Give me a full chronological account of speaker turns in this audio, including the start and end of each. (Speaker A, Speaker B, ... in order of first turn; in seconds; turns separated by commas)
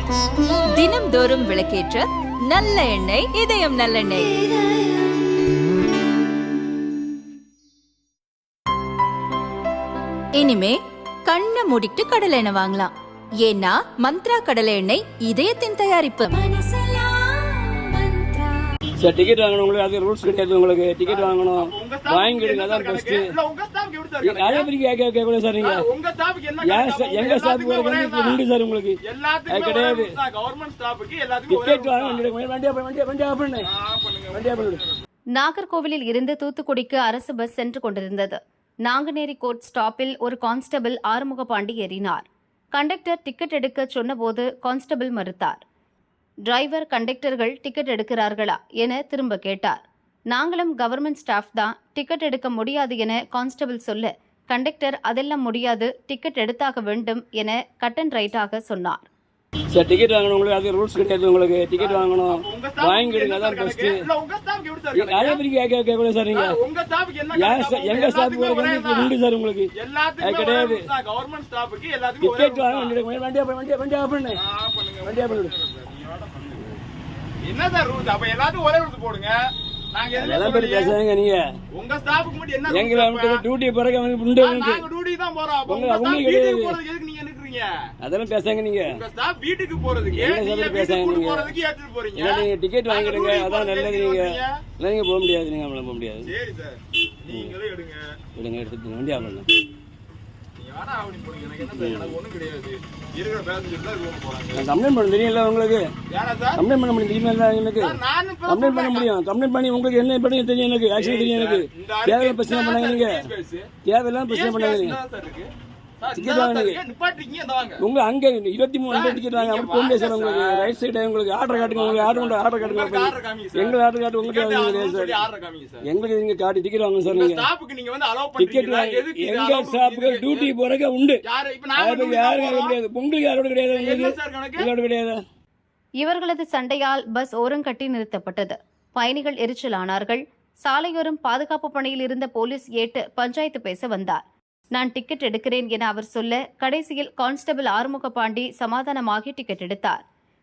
Speaker A: 0.7-5.1, Speaker A: 10.3-18.7, Speaker B: 19.0-23.3, Speaker C: 21.0-24.7, Speaker B: 24.2-25.8, Speaker C: 25.6-28.4, Speaker B: 26.6-30.2, Speaker C: 29.0-32.2, Speaker B: 31.5-33.7, Speaker C: 33.6-35.0, Speaker B: 34.3-34.8, Speaker D: 35.3-45.6, Speaker D: 46.5-49.8, Speaker D: 50.3-59.0, Speaker B: 59.7-64.0, Speaker C: 61.8-65.4, Speaker B: 64.9-66.6, Speaker C: 66.3-69.1, Speaker B: 67.3-70.9, Speaker C: 69.8-73.0, Speaker B: 72.2-74.4, Speaker C: 74.3-76.7, Speaker B: 75.0-75.5, Speaker C: 77.4-79.3, Speaker C: 79.9-81.0, Speaker B: 80.2-81.4, Speaker C: 81.7-83.4, Speaker B: 82.7-84.8, Speaker C: 84.4-87.7, Speaker B: 85.7-86.8, Speaker B: 88.0-89.0, Speaker C: 88.9-94.6, Speaker B: 90.2-91.5, Speaker B: 92.2-96.3, Speaker C: 96.2-98.1, Speaker B: 98.4-99.5, Speaker C: 100.6-104.7, Speaker B: 101.7-102.2, Speaker B: 104.6-105.9, Speaker C: 106.1-106.6, Speaker B: 106.6-113.3, Speaker C: 107.8-109.1, Speaker C: 110.9-113.7, Speaker B: 113.8-115.0, Speaker C: 114.3-117.8, Speaker B: 116.2-116.8, Speaker B: 117.8-125.2, Speaker C: 118.9-120.8, Speaker C: 121.5-125.8, Speaker B: 125.8-127.5, Speaker C: 127.1-130.5, Speaker B: 128.4-131.2, Speaker C: 131.2-132.8, Speaker B: 131.8-135.2, Speaker C: 133.7-134.7, Speaker D: 136.0-144.2, Speaker D: 144.8-150.0